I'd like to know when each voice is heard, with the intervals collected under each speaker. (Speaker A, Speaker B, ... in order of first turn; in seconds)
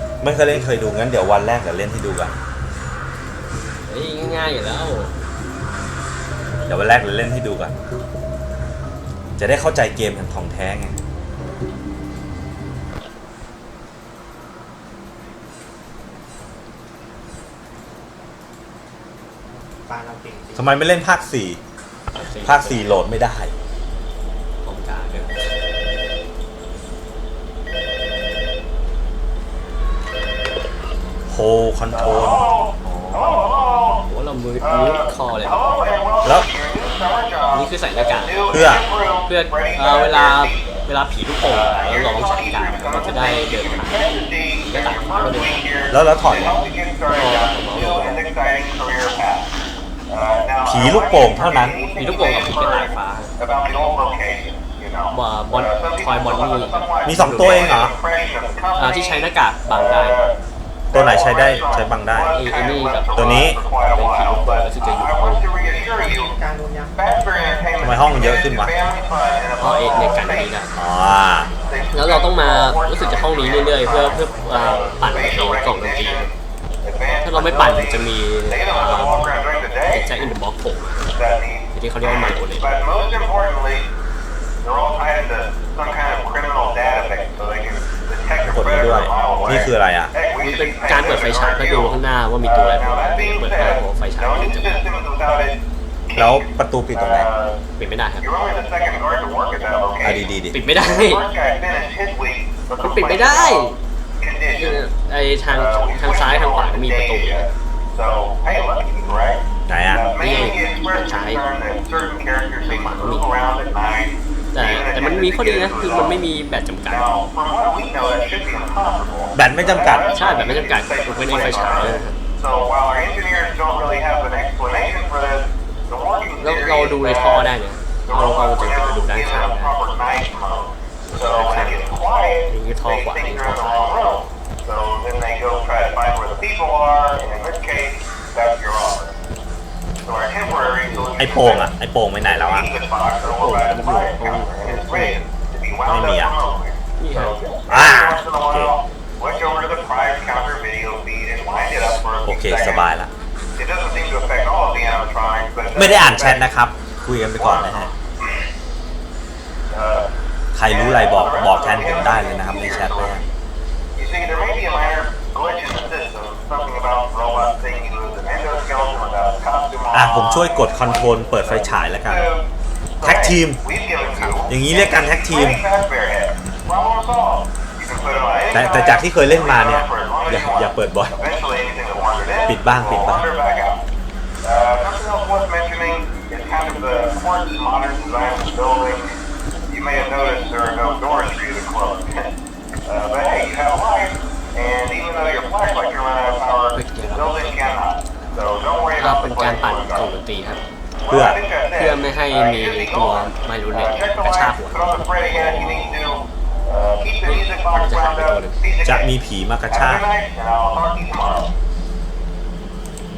Speaker A: 0.2-2.4, 6.7-7.8, 9.4-11.0, 20.6-21.6, 22.4-23.5, 31.3-33.4, 38.5-38.9, 45.9-46.6, 50.6-51.8, 57.1-57.9, 60.9-62.3, 63.1-63.6, 67.8-68.8, 70.8-71.5, 88.5-90.1, 96.2-97.3, 100.0-100.6, 109.7-110.0, 119.3-120.1, 141.2-142.7, 145.9-146.3, 147.7-148.7, 152.3-153.1, 155.8-157.9, 160.5-163.2, 169.9-172.3, 173.0-173.6, 174.5-175.6, 178.5-181.2, 182.5-183.3, 201.1-201.4, 208.8-210.0
Speaker B: 3.9-5.1, 22.1-23.0, 24.6-25.3, 34.1-35.8, 37.5-38.5, 39.3-45.6, 47.1-48.2, 52.0-53.3, 55.1-57.9, 58.8-60.2, 62.3-65.4, 69.6-70.7, 71.9-76.3, 77.2-79.4, 79.9-81.1, 81.7-82.7, 90.4-94.8, 97.8-98.3, 100.5-101.2, 102.8-103.8, 104.5-107.5, 110.2-111.4, 112.7-113.3, 114.5-117.1, 120.1-122.2, 126.4-129.8, 131.1-132.0, 132.5-133.8, 140.9-141.1, 143.2-145.2, 147.0-147.4, 174.2-174.5, 196.8-197.3, 199.0-200.6, 201.8-204.9, 207.2-208.6
Speaker C: 19.6-20.7, 66.0-66.9, 74.0-74.7
Speaker D: 31.9-34.0, 34.6-40.8, 41.4-49.5, 50.1-60.4, 60.9-66.3, 66.9-70.6, 71.6-80.2, 81.1-83.9, 84.6-97.6, 98.2-104.9, 105.5-116.2, 116.9-127.5, 128.1-139.1, 140.1-141.7, 142.2-152.9, 153.6-156.4, 157.3-157.9, 159.7-160.1, 160.7-163.2, 164.0-170.8, 172.0-172.5, 173.0-183.8, 184.4-189.2, 189.7-192.3, 192.8-200.1, 201.0-209.1, 209.7-211.5